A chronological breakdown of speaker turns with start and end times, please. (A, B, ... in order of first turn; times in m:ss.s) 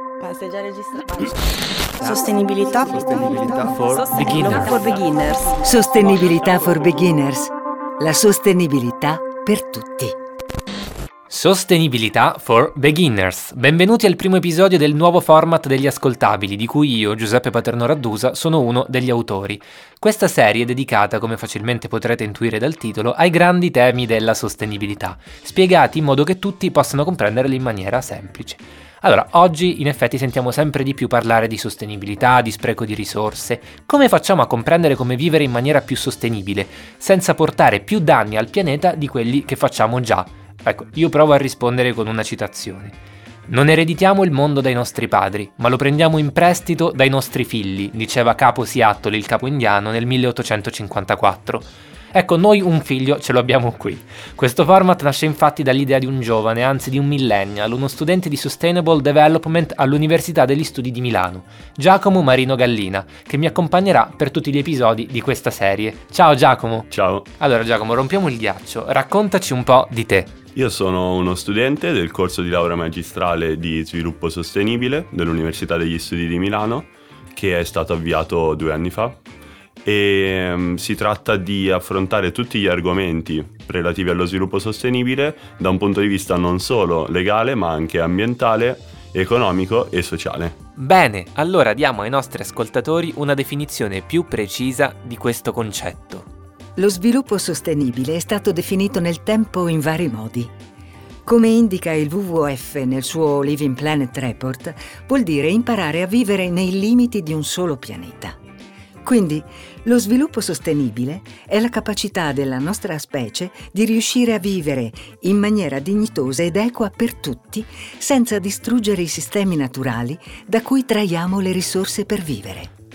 0:00.2-0:01.3 A
0:02.0-0:05.6 A
0:03.4-0:04.8 B
0:05.6-0:10.2 C
0:11.3-0:43.0 B
0:43.5-1:10.3 B
1:06.9-1:07.3 D
1:10.6-1:19.2 D
1:19.8-1:30.6 D
1:30.8-1:36.3 B
1:36.8-1:40.5 C
1:41.3-1:48.4 C
1:49.0-2:02.7 C